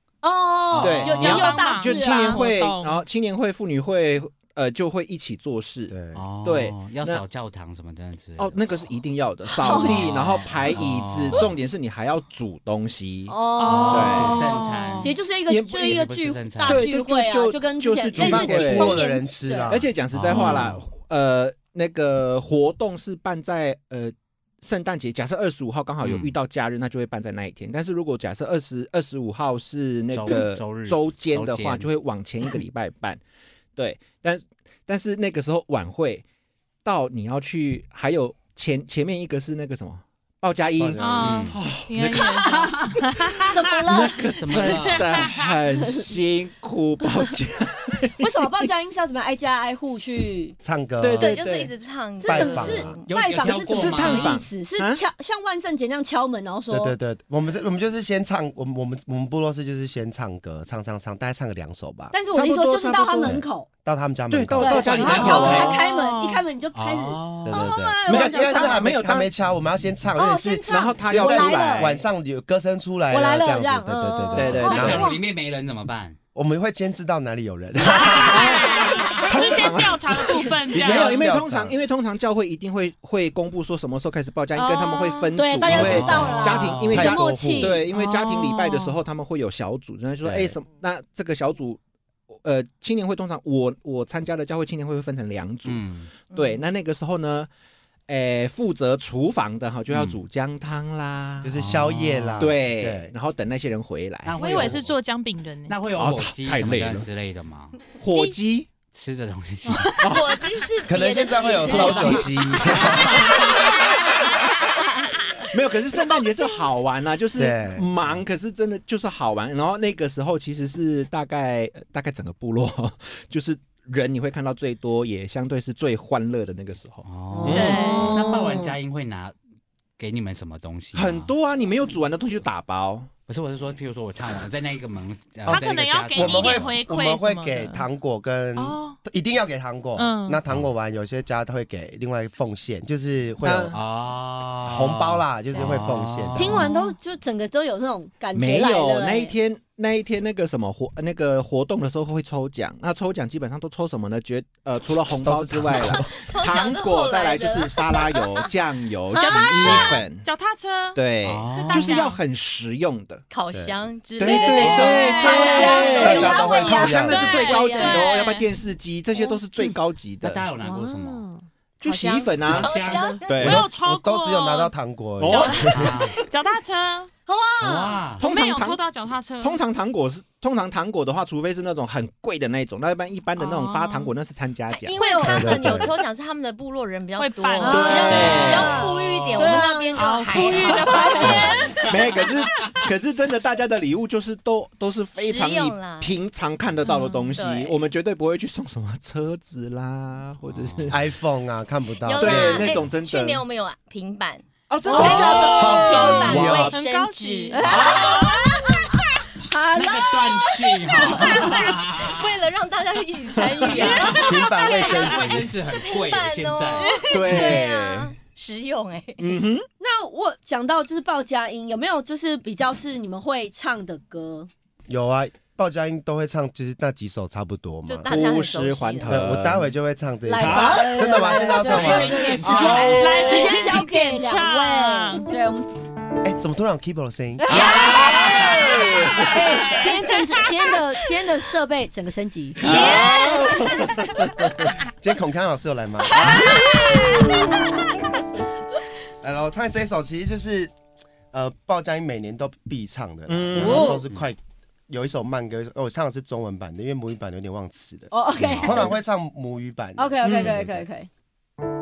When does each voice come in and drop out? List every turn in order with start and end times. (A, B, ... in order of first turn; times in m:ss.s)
0:00.2-0:02.5 A
0:00.8-0:07.2 B
0:00.8-0:01.2 C
0:00.9-0:03.1 D
0:05.9-0:06.2 E
0:06.1-0:08.9 C
0:08.4-0:14.4 B
0:09.5-0:10.3 A
0:09.6-0:11.5 C
0:13.3-0:14.3 A
0:13.6-0:15.1 D
0:13.6-0:15.1 C
0:15.0-0:19.8 A
0:15.5-0:16.0 B
0:15.8-0:16.9 C
0:16.6-0:19.0 B
0:18.2-0:20.0 E
0:19.7-0:33.2 B
0:20.1-0:20.9 C
0:20.3-0:20.6 D
0:26.0-0:26.4 C
0:30.1-0:31.9 C
0:33.8-0:36.2 B
0:36.8-0:43.0 B
0:40.8-0:41.4 E
0:41.0-0:43.8 D
0:41.0-0:41.6 C
0:42.1-0:44.3 A
0:43.9-0:48.4 B
0:44.4-0:45.3 C
0:44.5-0:45.6 D
0:45.8-0:46.1 A
0:48.2-0:50.6 A
0:50.6-0:51.7 E
0:51.0-0:51.7 B
0:51.2-0:53.1 F
0:52.2-0:57.0 A
0:52.2-0:53.0 E
0:53.1-0:54.4 C
0:53.4-0:55.0 B
0:56.7-1:02.1 E
1:02.1-1:03.7 A
1:02.3-1:03.4 B
1:03.2-1:05.6 E
1:04.3-1:05.8 B
1:04.6-1:08.9 A
1:05.0-1:05.7 C
1:05.1-1:06.4 D
1:06.8-1:07.7 C
1:07.4-1:15.1 E
1:08.1-1:09.3 B
1:10.2-1:12.0 A
1:10.7-1:12.0 B
1:13.1-1:15.2 A
1:14.3-1:15.0 B
1:14.6-1:16.2 C
1:16.4-1:18.6 E
1:18.0-1:21.3 D
1:18.1-1:31.8 B
1:18.9-1:19.2 C
1:20.7-1:21.8 E
1:24.6-1:25.5 D
1:25.3-1:27.8 A
1:25.6-1:27.1 C
1:25.9-1:26.2 E
1:26.9-1:27.8 E
1:27.9-1:29.0 D
1:30.2-1:30.6 E
1:32.3-1:37.5 B
1:35.7-1:36.1 C
1:36.3-1:36.6 F
1:38.1-1:41.5 B
1:39.9-1:40.2 C
1:41.4-1:43.1 E
1:41.5-1:42.6 C
1:42.4-1:44.6 B
1:44.2-1:45.0 C
1:44.4-1:45.8 D
1:45.7-1:47.8 C
1:45.9-1:47.1 B
1:47.9-1:48.7 B
1:48.1-1:48.4 D
1:48.9-1:50.0 C
1:49.7-1:50.0 D
1:50.0-1:50.3 B
1:50.0-1:53.4 F
1:50.9-1:53.3 E
1:51.5-1:53.5 B
1:51.7-1:52.2 C
1:53.3-1:53.6 C
1:55.4-2:08.2 B
1:57.4-1:57.9 E
2:07.0-2:09.4 C
2:07.3-2:08.7 A
2:07.5-2:08.2 F
2:07.8-2:08.2 D
2:10.0-2:11.3 C
2:10.9-2:13.1 B
2:13.3-2:16.8 C
2:15.5-2:17.9 D
2:16.2-2:23.8 E
2:18.6-2:19.0 D
2:20.0-2:20.4 D
2:23.4-2:23.8 B
2:23.7-2:26.7 C
2:24.6-2:26.6 E
2:26.4-2:29.4 A
2:26.5-2:27.0 D
2:28.3-2:40.3 B
2:35.2-2:36.1 E
2:35.8-2:38.5 F
2:39.1-2:42.2 D
2:41.0-2:43.2 B
2:41.2-2:42.0 C
2:43.3-2:46.6 F
2:44.2-2:50.5 B
2:44.3-2:45.6 C
2:44.5-2:48.5 D
2:44.8-2:48.1 A
2:46.0-2:47.4 E
2:50.2-2:51.3 C
2:50.6-2:53.2 A
2:51.8-2:53.6 B
2:52.4-2:53.2 C
2:52.5-2:53.4 F
2:53.3-2:54.7 D
2:53.4-2:56.0 E
2:55.2-2:55.7 B
2:55.3-2:57.1 D
2:55.7-2:56.2 C
2:57.3-2:58.1 A
2:57.6-2:58.2 C
2:58.2-2:58.8 B
2:58.2-2:59.6 D
2:59.4-3:05.0 B
3:03.4-3:04.1 D
3:04.7-3:11.7 F
3:05.0-3:05.7 A
3:05.2-3:06.0 E
3:05.6-3:05.8 B
3:07.2-3:08.9 D
3:07.6-3:11.6 A
3:07.7-3:08.8 B
3:08.1-3:09.6 C
3:09.5-3:12.3 D
3:10.7-3:21.0 B
3:11.2-3:11.5 E
3:15.2-3:16.2 F
3:16.8-3:17.3 D
3:17.3-3:17.8 F
3:20.4-3:20.9 C
3:20.9-3:22.8 E
3:22.0-3:29.0 F
3:22.2-3:23.4 B
3:24.7-3:26.8 B
3:24.9-3:26.1 A
3:24.9-3:28.5 D
3:25.4-3:26.8 E
3:27.5-3:31.6 A
3:27.6-3:28.3 B
3:29.7-3:32.3 C
3:31.1-3:39.4 F
3:33.8-3:34.3 C
3:33.8-3:34.3 D
3:34.1-3:35.5 E
3:34.8-3:37.0 C
3:37.1-3:38.2 B
3:39.2-3:39.7 B
3:39.8-3:44.5 A
3:44.9-3:48.2 E
3:47.9-3:49.2 F
3:48.1-3:49.7 B
3:49.1-3:52.3 E
3:50.3-3:55.7 A
3:50.4-3:51.3 B
3:51.7-3:55.3 D
3:51.7-3:52.8 C
3:52.4-3:53.4 B
3:56.2-3:58.5 E
3:57.4-3:58.5 A
3:57.5-3:59.3 B
3:59.3-4:04.3 A
3:59.7-4:00.4 D
4:02.6-4:04.7 B
4:02.6-4:03.1 E
4:02.7-4:03.5 D
4:04.5-4:06.9 E
4:06.1-4:07.3 B
4:06.6-4:07.5 A
4:09.2-4:10.7 E
4:11.3-4:20.8 E
4:13.3-4:14.0 B
4:13.6-4:14.0 A
4:18.1-4:19.0 A
4:18.4-4:18.8 C
4:20.0-4:21.1 A
4:20.2-4:20.5 B